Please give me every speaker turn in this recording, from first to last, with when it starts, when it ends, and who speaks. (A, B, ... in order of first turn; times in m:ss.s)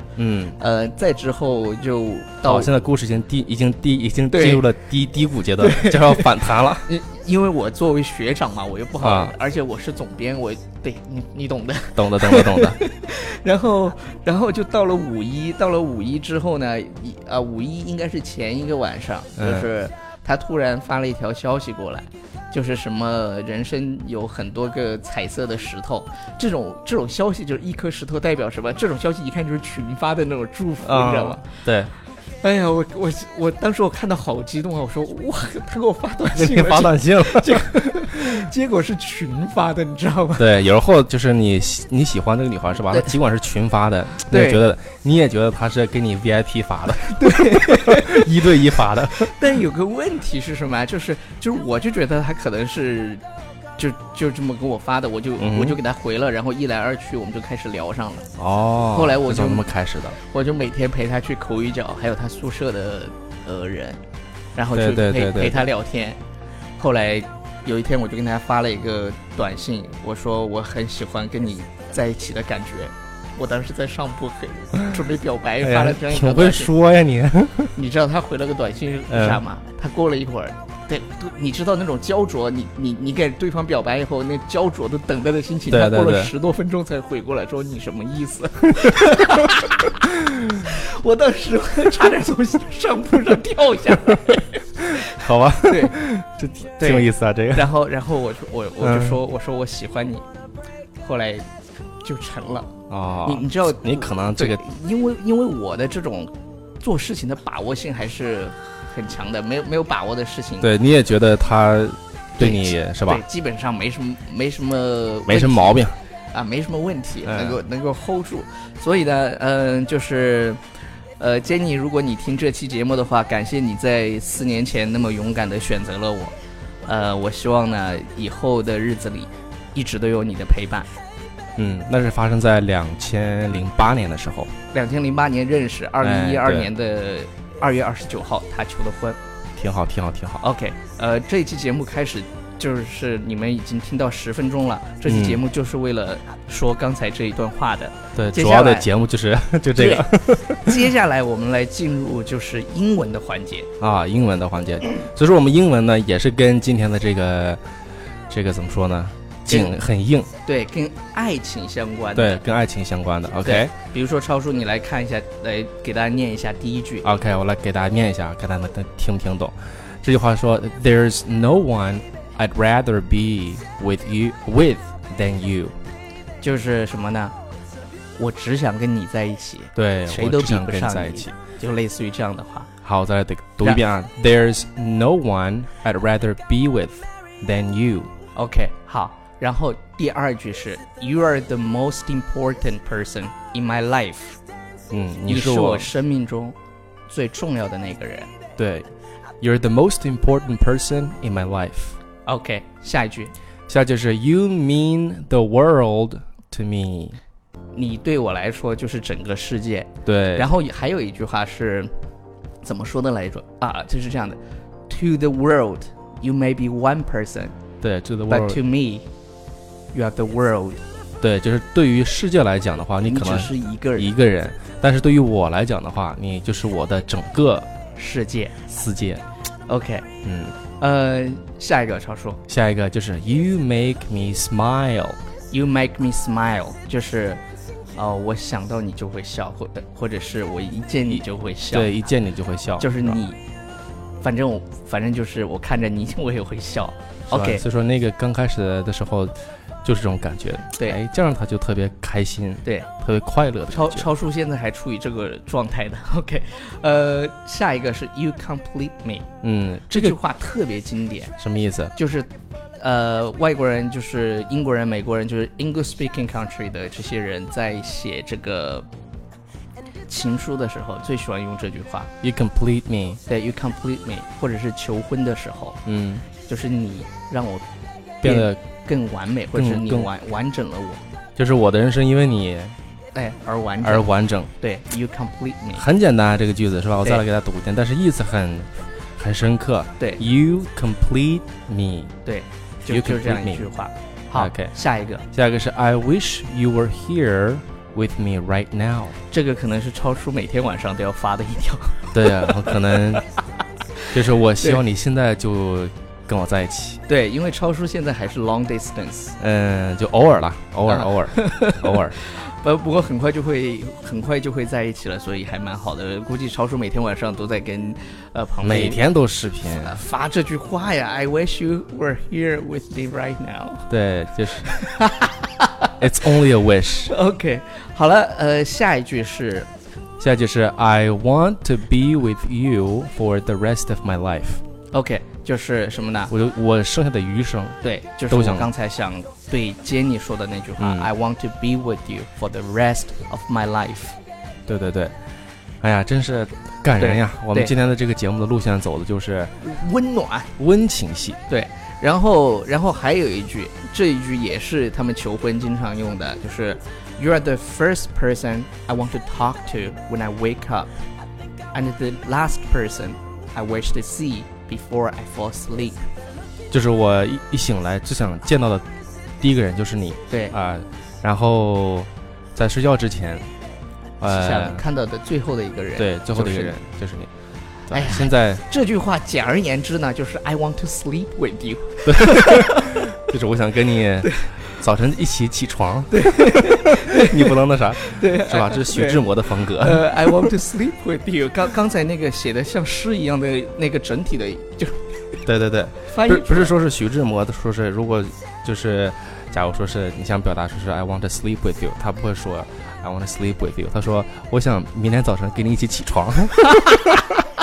0:00.2-0:00.6 A
0:00.6-0:02.7 B
0:02.4-0:06.9 A
0:04.3-0:04.6 B
0:05.6-0:31.4 B
0:09.0-0:09.3 A
0:12.0-0:12.8 A
0:19.4-0:19.7 A
0:30.8-0:31.9 A
0:32.4-0:40.5 B
0:36.3-0:37.7 A
0:40.4-0:49.3 A
0:44.3-0:44.6 B
0:47.0-0:48.3 B
0:49.1-0:53.2 B
0:53.8-0:58.3 B
0:55.4-0:55.8 A
0:58.4-1:00.2 A
0:58.9-1:04.0 B
1:04.6-1:06.2 B
1:04.7-1:05.6 A
1:06.8-1:16.7 B
1:15.6-1:17.7 A
1:17.8-1:35.0 B
1:19.1-1:19.4 A
1:25.7-1:26.3 A
1:34.9-1:37.7 A
1:35.6-1:35.9 B
1:36.8-1:40.2 B
1:38.8-1:39.2 A
1:41.0-1:41.4 B
1:42.0-1:42.7 B
1:42.9-1:44.6 A
1:43.2-1:46.3 B
1:46.8-1:50.7 B
1:50.6-1:53.2 A
1:52.4-2:00.6 B
1:55.3-1:55.9 A
1:57.2-1:57.6 A
2:01.2-2:06.3 B
2:06.8-2:10.9 B
2:11.6-2:14.5 A
2:14.7-2:19.2 B
2:16.0-2:16.7 A
2:19.6-2:20.4 A
2:20.4-2:28.9 B
2:25.1-2:25.4 A
2:28.1-2:30.8 A
2:29.7-2:33.7 B
2:33.8-2:37.6 A
2:38.3-2:40.3 A
2:39.5-2:39.8 B
2:40.4-2:42.6 B
2:42.1-2:43.7 A
2:43.4-2:47.1 B
2:47.0-2:55.8 A
2:56.4-2:57.3 B
2:58.2-3:02.7 B
2:59.7-3:01.3 A
3:02.8-3:08.1 A
3:08.3-3:14.4 B
3:14.9-3:15.9 A
3:15.3-3:16.6 B
3:17.1-3:18.3 B
3:18.6-3:18.9 A
3:19.4-3:22.0 A
3:22.2-3:23.3 B
3:23.7-3:27.2 A
3:27.7-3:31.9 B
3:30.0-3:30.5 A
3:32.6-3:37.6 B
3:37.8-3:38.6 A
3:38.3-3:39.1 B
3:39.9-3:40.8 B
3:41.2-3:47.7 A
3:43.0-3:44.1 B
3:48.0-3:48.6 B
3:48.7-3:49.2 A
3:49.7-3:50.1 B
3:50.2-3:50.6 A
3:50.8-3:52.4 B
3:52.5-3:55.2 A
3:55.5-3:57.4 B
3:58.0-4:01.9 B
4:01.1-4:03.2 A
4:02.8-4:03.4 B
4:04.2-4:07.6 B
4:07.3-4:14.1 A
4:13.7-4:19.3 B
4:19.4-4:20.2 A
4:19.9-4:21.3 B
4:21.4-4:21.9 A
4:21.9-4:28.8 B
4:30.1-4:32.1 B
4:32.2-4:33.2 A
4:33.3-4:35.8 B
4:35.8-4:36.2 A
4:36.4-4:37.6 B
4:38.2-4:38.6 A
4:38.2-4:41.0 B
4:39.5-4:40.1 A
4:41.4-4:42.8 A
4:43.1-4:45.8 B
4:43.8-4:44.5 A
4:45.7-4:52.1 A
4:52.2-4:55.2 B
4:52.8-4:53.7 A
4:54.3-4:54.7 A
4:55.3-4:59.2 A
4:59.3-5:02.7 B
5:02.1-5:03.2 A
5:04.1-5:07.0 A
5:07.1-5:09.4 B
5:09.4-5:12.2 A
5:10.9-5:19.0 B
5:18.6-5:20.0 A
5:19.8-5:23.9 B
5:23.9-5:24.7 A
5:24.6-5:25.9 B
5:26.0-5:27.1 A
5:27.0-5:29.7 B
5:30.2-5:34.6 A
5:34.9-5:36.3 B
5:36.3-5:38.7 A
5:37.8-5:44.2 B
5:40.8-5:41.1 A
5:44.7-5:45.1 A
5:45.8-5:49.6 A
5:47.0-5:47.7 B
5:49.6-5:50.5 B
5:50.6-5:51.4 A
5:51.5-6:00.9 B
6:01.7-6:06.0 B
6:06.7-6:08.8 A
6:09.4-6:13.5 A
6:14.2-6:14.8 A
6:14.2-6:16.8 B
6:16.0-6:17.3 A
6:17.9-6:18.6 A
6:17.9-6:22.9 B
6:22.0-6:30.6 A
6:26.1-6:35.1 B
6:35.4-6:46.8 A
6:36.0-6:36.7 B
6:46.6-6:47.2 B